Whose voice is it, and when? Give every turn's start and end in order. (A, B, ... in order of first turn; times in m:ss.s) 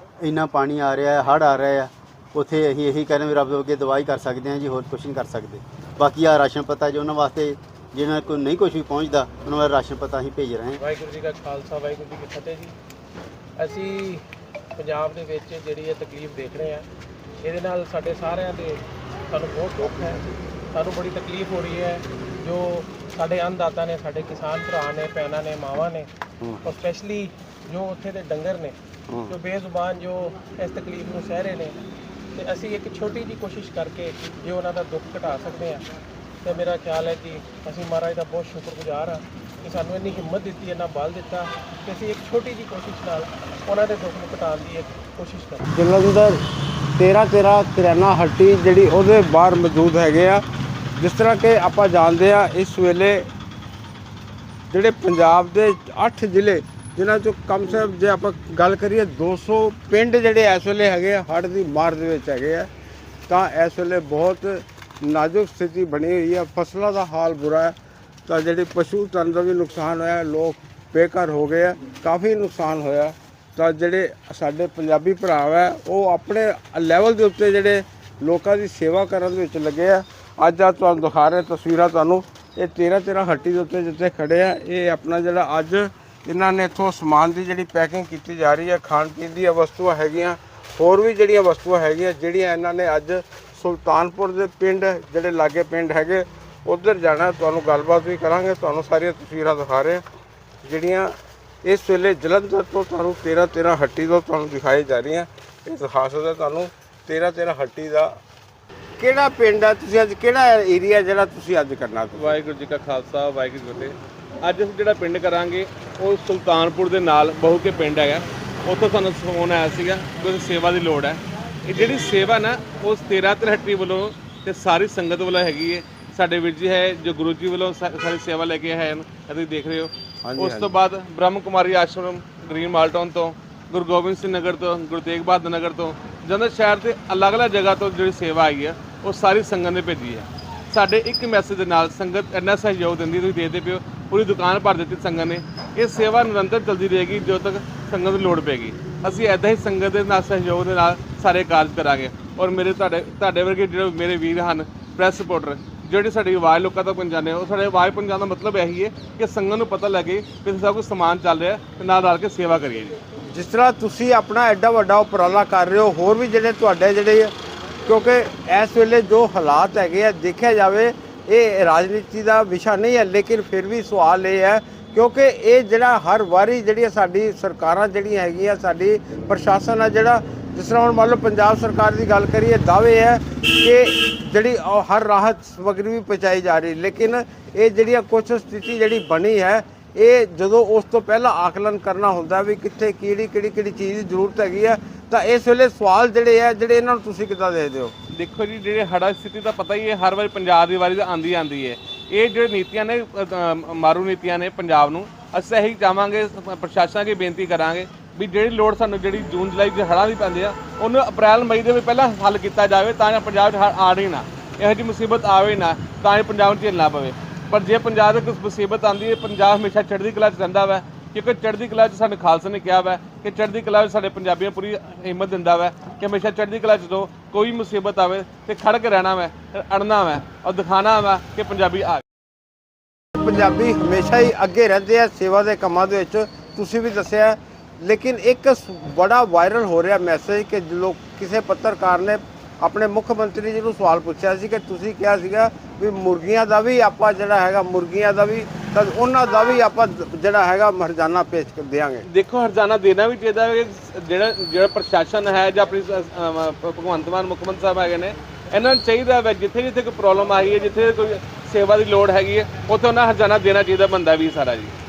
0:00.2-0:10.8 A
0:10.8-0:12.8 B
0:13.6-0:14.2 B
0:14.8-0:16.8 B
0:17.4-0:26.1 B
0:26.4-0:26.7 C
0:26.6-0:28.8 B
0:29.1-0:29.3 C
0:29.3-0:31.8 B
0:32.3-0:35.8 B
0:36.4-0:45.6 B
0:45.7-0:46.4 C
0:47.0-0:50.4 C
0:51.0-0:53.3 C
0:54.7-1:02.7 C
1:03.3-1:07.7 C
1:08.3-1:40.0 C
1:40.6-1:48.2 C
1:49.0-1:52.3 C
1:52.1-2:43.0 D
2:10.2-2:10.7 C
2:43.3-2:47.3 C
2:47.8-3:17.9 C
3:18.1-3:52.0 D
3:53.1-4:12.0 C
4:12.1-4:24.7 D